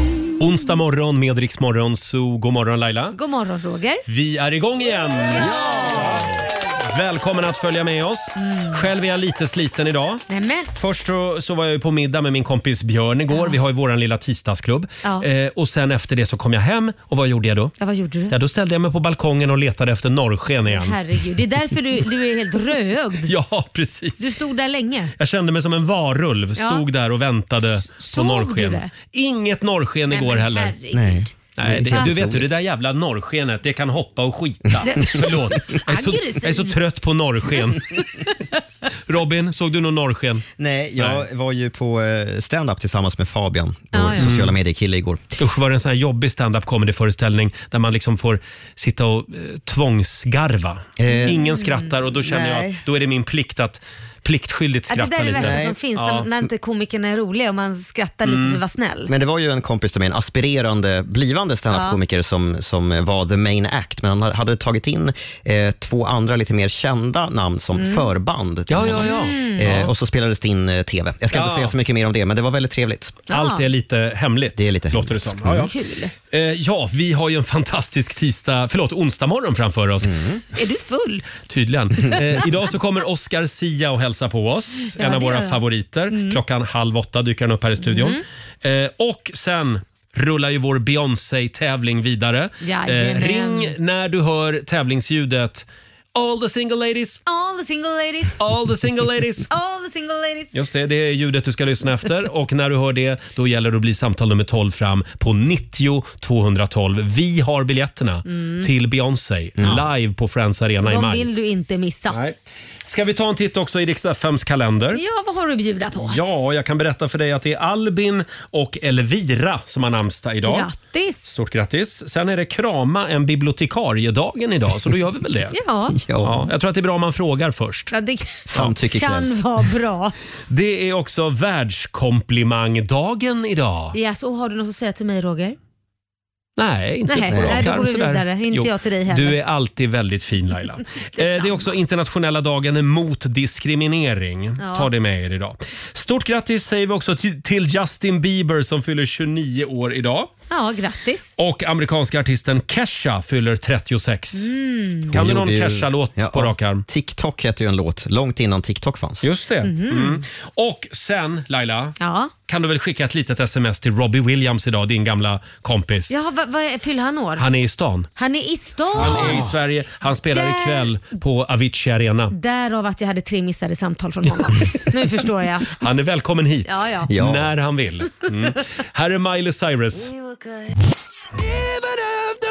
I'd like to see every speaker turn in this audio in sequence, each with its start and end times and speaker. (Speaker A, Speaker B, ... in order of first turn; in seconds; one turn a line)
Speaker A: 0.4-3.2
Speaker B: 3.1-4.0
Speaker A: 4.1-6.3
Speaker B: 5.3-6.3
Speaker A: 6.8-17.8
Speaker B: 8.4-8.8
Speaker B: 10.3-10.7
Speaker B: 13.3-13.6
Speaker B: 17.8-18.4
Speaker A: 18.3-21.0
Speaker B: 20.7-23.3
Speaker A: 23.3-24.2
Speaker B: 24.2-25.1
Speaker A: 25.2-30.7
Speaker B: 26.6-26.8
Speaker B: 27.6-28.9
Speaker B: 30.1-31.4
Speaker C: 30.9-32.5
Speaker A: 31.6-38.0
Speaker B: 34.8-36.8
Speaker A: 39.1-40.4
Speaker C: 40.6-45.2
Speaker A: 41.0-41.2
Speaker B: 43.9-44.3
Speaker A: 44.2-44.5
Speaker A: 45.4-56.3
Speaker C: 51.0-51.4
Speaker B: 51.2-51.9
Speaker C: 52.2-52.8
Speaker B: 54.9-59.1
Speaker C: 55.4-55.8
Speaker A: 58.3-58.6
Speaker C: 59.1-73.2
Speaker B: 61.7-62.0
Speaker B: 67.8-68.1
Speaker A: 68.7-69.9
Speaker B: 69.0-69.8
Speaker A: 71.3-71.7
Speaker B: 73.3-73.7
Speaker A: 73.3-75.7
Speaker C: 74.6-75.7
Speaker B: 75.6-76.1
Speaker A: 76.3-80.2
Speaker C: 80.0-80.4
Speaker B: 80.5-81.3
Speaker A: 81.4-97.2
Speaker B: 84.9-86.4
Speaker B: 87.8-88.2
Speaker B: 92.6-93.8
Speaker B: 97.3-98.4
Speaker A: 98.4-99.5
Speaker B: 99.5-100.5
Speaker A: 100.5-111.3
Speaker B: 108.3-108.7
Speaker C: 109.6-109.8
Speaker B: 110.8-112.2
Speaker A: 112.1-115.0
Speaker B: 114.9-116.2
Speaker A: 116.0-120.7
Speaker B: 120.5-121.3
Speaker A: 121.3-125.5
Speaker B: 125.5-126.0
Speaker C: 126.0-126.5
Speaker A: 126.2-127.9
Speaker B: 127.9-130.2
Speaker C: 128.5-129.4
Speaker A: 130.5-134.0
Speaker B: 133.9-135.6
Speaker A: 136.6-150.3
Speaker B: 137.1-139.4
Speaker C: 137.3-137.8
Speaker B: 141.2-141.7
Speaker B: 144.6-144.9
Speaker B: 150.5-151.3
Speaker A: 151.4-154.5
Speaker B: 154.3-155.1
Speaker A: 155.1-156.8
Speaker C: 155.1-159.2
Speaker A: 159.2-162.0
Speaker B: 159.6-160.2
Speaker B: 162.0-162.3
Speaker A: 162.5-166.2
Speaker B: 166.1-167.4
Speaker A: 167.4-168.1
Speaker B: 168.2-169.4
Speaker A: 169.0-172.3
Speaker C: 169.0-169.5
Speaker B: 170.3-170.9
Speaker B: 172.3-175.7
Speaker A: 175.7-180.1
Speaker B: 176.7-177.1
Speaker C: 177.1-177.5